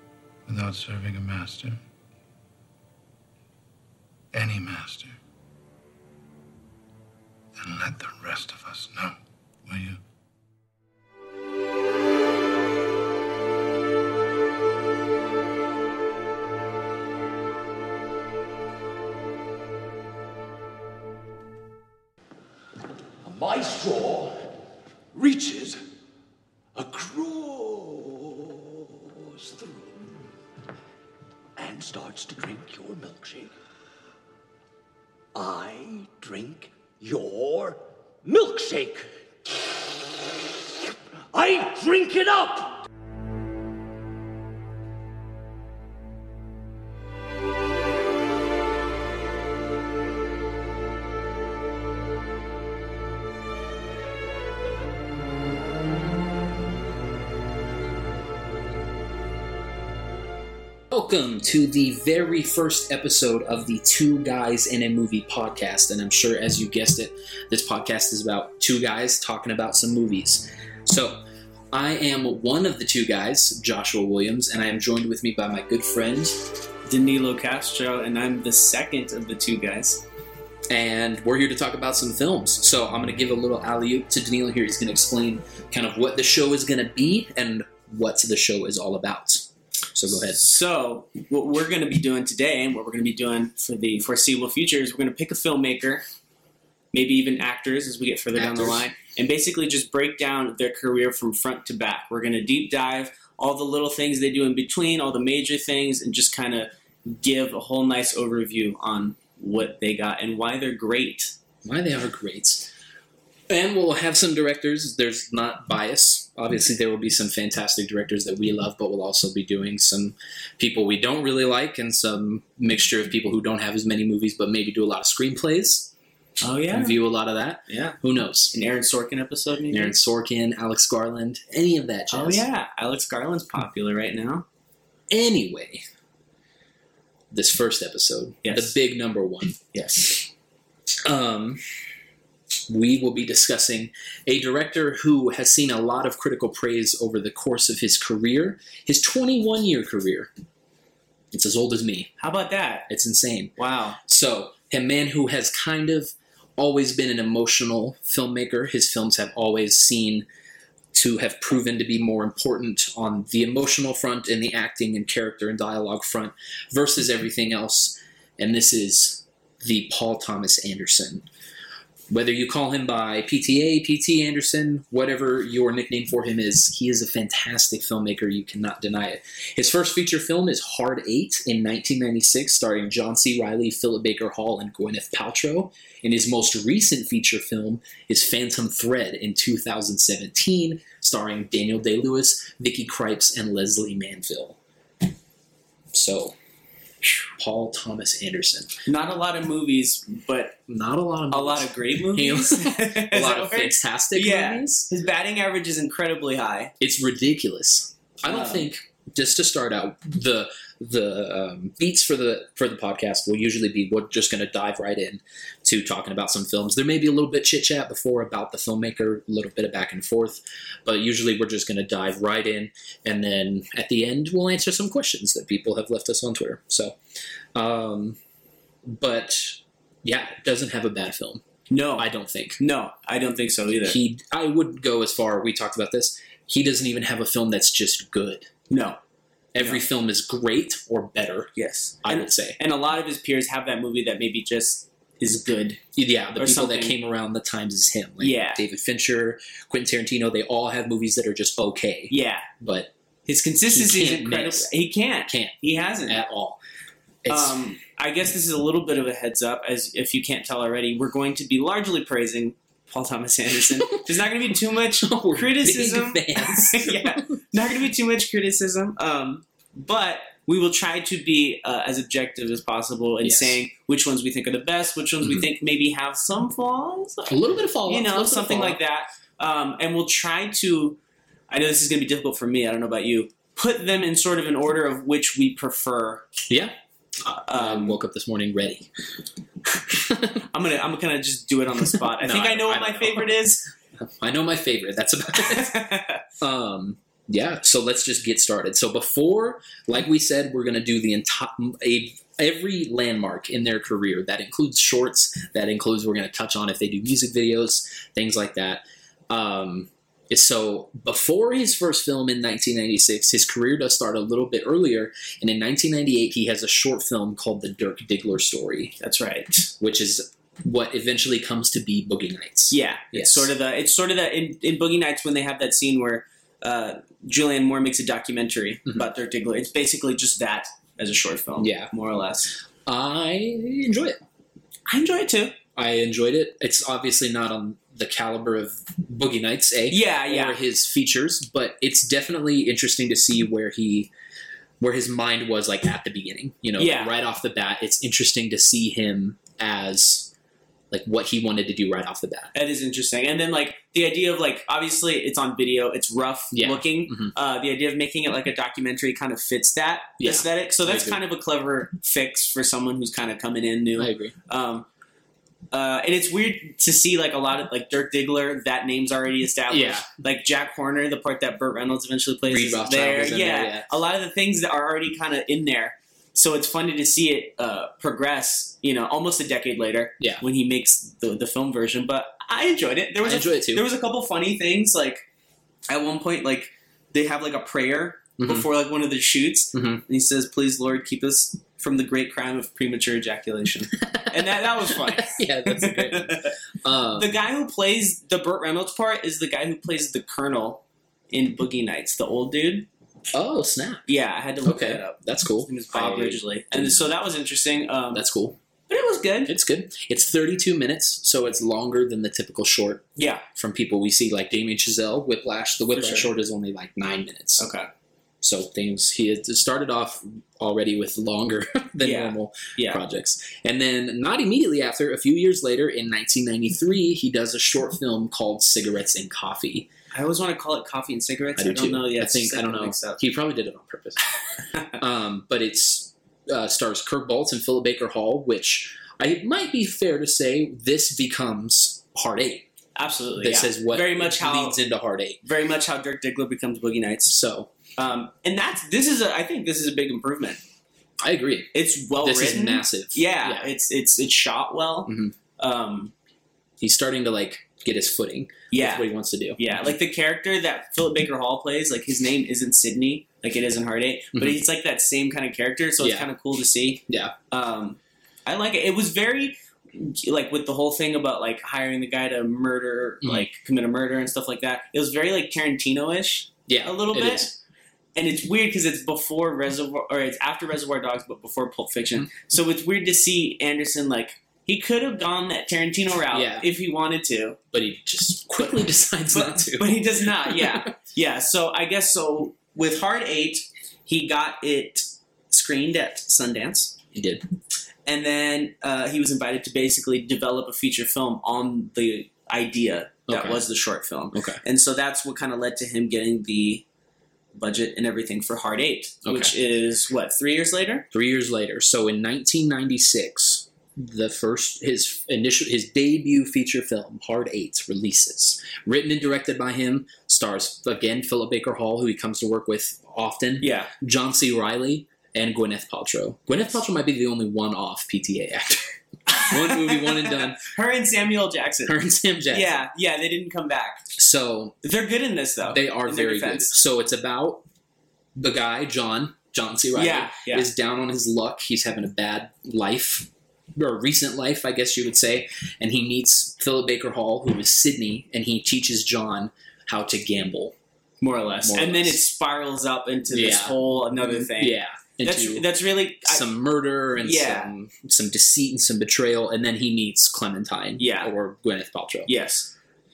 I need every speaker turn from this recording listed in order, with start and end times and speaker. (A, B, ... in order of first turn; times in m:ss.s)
0:00.4-0:01.8 A
0:04.3-0:05.2 A
0:07.6-0:10.0 A
0:23.2-0:24.5 B
0:25.1-0:25.8 B
0:26.7-0:30.3 B
0:31.6-0:33.5 B
0:35.3-0:39.1 B
0:39.7-0:42.9 B
1:00.9-1:11.2 C
1:11.7-1:16.4 C
1:16.9-1:20.0 D
1:20.7-1:30.4 C
1:30.3-1:36.0 D
1:36.9-1:51.3 D
1:38.4-1:38.8 C
1:51.6-1:52.7 C
1:53.5-2:05.9 C
2:06.4-2:07.0 D
2:06.7-2:08.5 C
2:07.7-2:08.0 D
2:08.5-2:09.9 D
2:09.7-2:12.4 C
2:12.1-2:14.4 D
2:15.1-2:15.8 C
2:17.3-2:19.6 C
2:18.4-2:18.8 D
2:19.7-2:20.3 D
2:21.0-2:21.6 C
2:22.7-2:30.3 C
2:31.3-2:32.1 C
2:32.2-2:32.9 D
2:32.9-2:40.2 C
2:33.6-2:34.0 D
2:40.9-2:51.3 C
2:52.1-3:14.6 C
3:15.9-3:16.3 C
3:17.4-3:18.7 C
3:18.8-3:20.6 D
3:20.7-3:24.8 C
3:21.3-3:26.7 D
3:26.8-3:47.0 C
3:28.2-3:28.7 D
3:47.5-3:48.2 C
3:48.8-3:51.4 C
3:51.7-3:54.0 D
3:52.0-3:52.6 C
3:53.8-3:58.5 C
3:58.7-3:59.0 D
3:59.5-4:01.5 C
4:01.6-4:05.8 D
4:02.0-4:02.6 C
4:05.9-4:12.9 C
4:06.4-4:06.9 D
4:08.2-4:08.6 D
4:12.1-4:12.5 D
4:13.2-4:16.2 D
4:13.7-4:14.7 C
4:15.2-4:16.6 C
4:17.2-4:17.6 C
4:17.3-4:41.0 D
4:24.9-4:27.2 C
4:33.2-4:33.6 C
4:37.3-4:38.8 C
4:41.5-4:46.3 D
4:46.5-4:46.7 C
4:47.2-4:48.9 C
4:47.3-4:48.0 D
4:49.9-4:50.4 C
4:50.5-4:53.7 D
4:52.2-4:53.4 C
4:54.0-4:55.8 C
4:55.4-4:56.2 D
4:56.4-5:18.9 C
5:19.0-5:19.7 D
5:19.8-5:23.5 C
5:22.7-5:32.5 D
5:31.6-5:31.9 C
5:32.8-5:34.2 C
5:34.9-5:35.6 D
5:35.8-5:44.1 C
5:39.9-5:40.6 D
5:44.8-5:50.3 C
5:46.8-5:47.2 D
5:50.9-5:52.5 C
5:52.5-6:04.9 D
5:56.5-5:57.3 C
6:00.2-6:01.2 C
6:04.0-6:04.3 C
6:05.7-6:25.2 D
6:09.7-6:10.1 C
6:12.5-6:13.9 C
6:23.2-6:23.8 C
6:25.9-6:36.5 D
6:28.4-6:28.7 C
6:29.7-6:30.0 C
6:34.0-6:37.3 C
6:37.1-6:42.9 D
6:43.3-6:44.1 C
6:44.1-6:48.2 D
6:44.6-6:47.1 C
6:48.1-6:48.6 C
6:48.9-6:49.5 D
6:49.4-6:57.6 C
6:53.2-6:53.4 D
6:55.9-6:56.3 D
6:57.6-6:57.9 D
6:58.4-7:09.9 C
7:02.0-7:03.0 D
7:10.1-7:13.2 D
7:11.6-7:14.2 C
7:14.9-7:22.7 C
7:23.0-7:24.8 D
7:23.4-7:25.4 C
7:25.4-7:27.4 D
7:27.3-7:27.7 C
7:28.0-7:30.6 D
7:31.2-7:33.7 C
7:31.7-7:36.1 D
7:35.1-7:35.3 C
7:36.8-7:39.7 C
7:38.7-7:57.5 D
7:44.3-7:44.6 C
7:46.0-7:46.3 C
7:47.1-7:47.3 C
7:56.7-7:57.6 C
7:58.1-8:07.6 D
8:06.3-8:06.7 C
8:07.7-8:10.9 C
8:09.3-8:16.9 D
8:17.1-8:17.4 C
8:18.0-8:26.8 D
8:23.3-8:23.6 C
8:24.3-8:24.6 C
8:27.5-8:31.0 D
8:29.2-8:29.6 C
8:31.1-8:50.6 C
8:43.6-8:43.9 D
8:49.3-8:52.0 D
8:51.8-8:52.8 C
8:52.5-8:54.0 D
8:54.2-8:54.8 C
8:54.8-8:56.8 D
8:55.6-8:57.6 C
8:58.4-9:10.7 C
8:59.9-9:00.7 D
9:11.2-9:16.4 D
9:11.6-9:12.2 C
9:13.3-9:15.7 C
9:16.2-9:22.3 C
9:17.2-9:17.7 D
9:21.0-9:21.3 D
9:22.3-9:22.7 D